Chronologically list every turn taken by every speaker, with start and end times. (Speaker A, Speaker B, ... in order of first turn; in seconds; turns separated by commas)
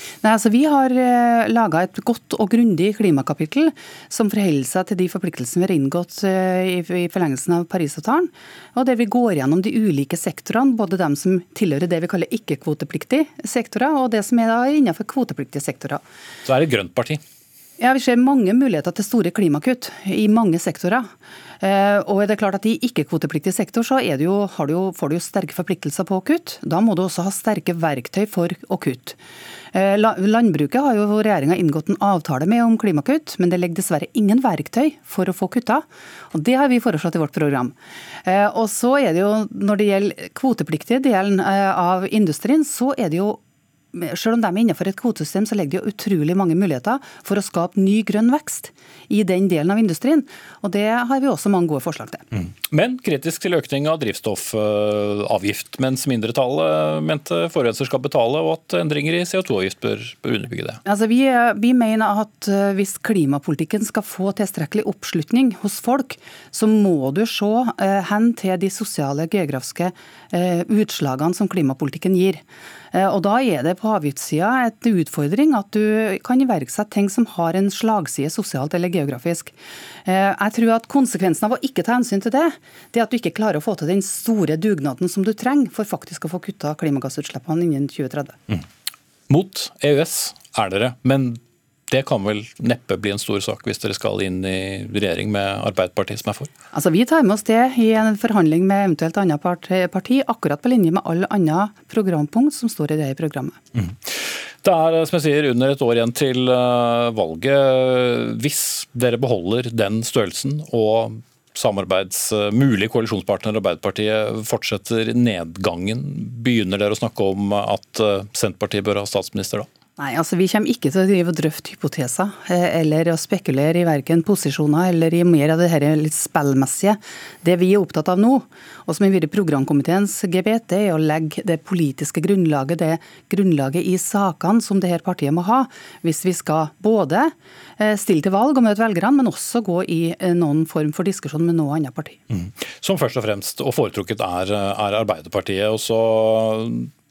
Speaker A: 0.2-16.0, Speaker B: 16.4-17.2, Speaker A: 17.8-29.2, Speaker A: 29.7-43.4, Speaker A: 43.9-52.2, Speaker B: 52.3-60.8, Speaker A: 60.8-88.4, Speaker B: 89.3-96.5, Speaker A: 96.7-103.6, Speaker B: 103.7-119.7, Speaker A: 120.0-142.2, Speaker B: 142.3-146.9